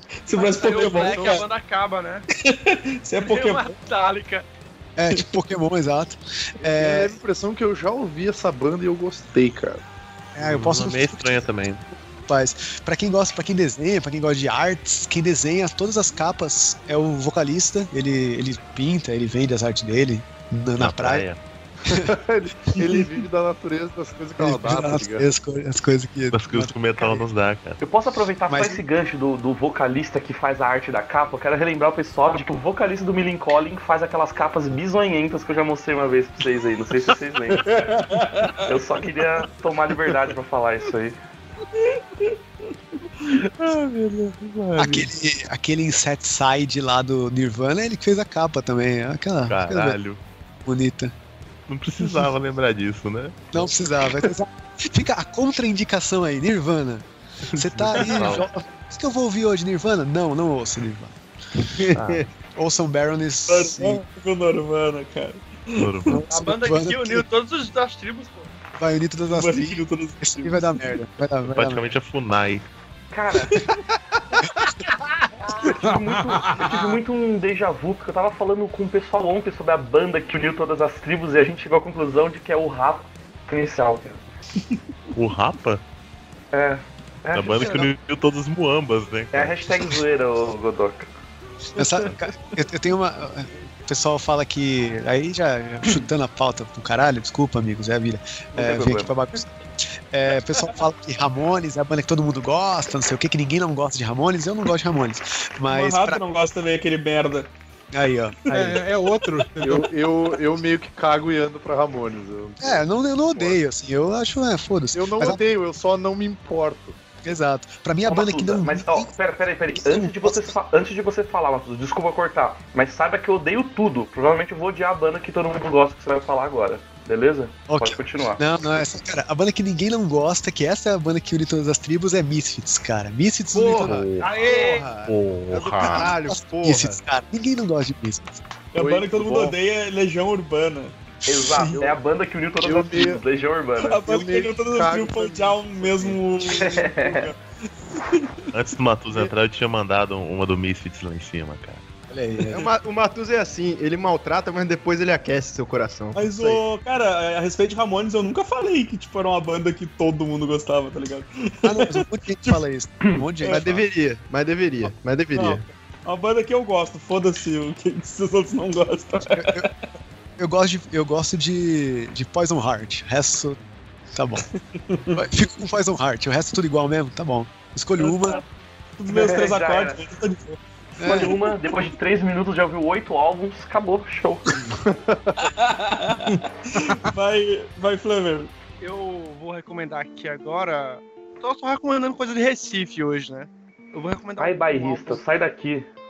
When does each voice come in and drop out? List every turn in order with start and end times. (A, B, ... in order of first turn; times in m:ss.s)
0:00.3-0:01.5 A
0:00.3-0:02.2 B
0:00.9-0:01.4 C
0:02.3-0:03.7 A
0:03.2-0:04.4 B
0:05.0-0:07.1 D
0:06.6-0:09.8 C
0:10.4-0:11.5 D
0:10.4-0:11.8 E
0:12.2-0:21.2 D
0:20.8-0:21.4 E
0:21.9-0:22.1 D
0:21.9-0:25.2 C
0:22.8-0:23.1 D
0:24.4-0:27.2 D
0:26.3-0:27.8 E
0:27.8-0:37.6 F
0:28.5-0:28.8 D
0:38.0-0:38.5 A
0:38.6-0:41.2 F
0:43.5-0:45.1 E
0:44.8-0:50.0 D
0:49.5-0:50.2 E
0:50.6-0:51.1 D
0:51.7-0:53.7 E
0:52.0-0:52.3 D
0:53.5-1:01.2 D
0:57.5-0:58.1 E
0:58.0-0:58.4 C
1:01.8-1:02.2 G
1:01.9-1:02.2 E
1:02.5-1:04.0 D
1:03.5-1:06.1 A
1:05.8-1:06.2 E
1:06.1-1:07.2 D
1:06.3-1:08.5 B
1:08.8-1:11.8 D
1:09.3-1:10.8 A
1:11.5-1:12.7 E
1:13.1-1:13.6 F
1:15.6-1:24.2 F
1:15.8-1:17.0 H
1:25.1-1:25.8 E
1:26.5-1:27.9 F
1:27.3-1:29.7 E
1:29.3-1:31.1 F
1:31.8-1:46.2 D
1:38.5-1:39.1 F
1:45.7-1:47.5 A
1:47.9-1:48.8 D
1:48.5-1:49.9 H
1:49.6-1:53.6 C
1:52.6-1:55.4 D
1:54.9-1:57.0 C
1:57.2-1:59.1 D
1:58.0-2:08.4 F
1:59.7-2:00.5 D
2:07.7-2:14.1 D
2:13.5-2:14.2 C
2:13.7-2:14.3 E
2:14.2-2:14.9 B
2:14.3-2:15.0 G
2:15.1-2:16.2 E
2:15.5-2:17.0 G
2:15.8-2:18.4 D
2:18.7-2:20.9 A
2:18.8-2:19.5 C
2:21.2-2:24.1 F
2:21.3-2:21.8 D
2:21.6-2:22.0 C
2:22.6-2:23.2 C
2:23.8-2:27.4 A
2:24.0-2:26.2 C
2:26.6-2:27.2 F
2:28.0-2:28.5 A
2:28.5-2:31.8 E
2:32.1-2:32.7 D
2:32.5-2:36.6 G
2:36.1-2:42.6 A
2:41.6-2:43.8 D
2:43.5-2:45.6 G
2:45.3-2:49.7 A
2:49.3-2:49.7 D
2:50.4-2:53.6 D
2:54.1-2:54.4 D
2:54.9-2:55.2 A
2:55.1-2:58.4 D
2:58.1-2:58.4 A
2:59.0-3:01.4 A
2:59.1-3:00.0 F
3:01.0-3:01.4 D
3:01.0-3:04.5 F
3:04.8-3:05.3 C
3:05.5-3:08.5 A
3:08.8-3:15.2 B
3:14.4-3:15.9 F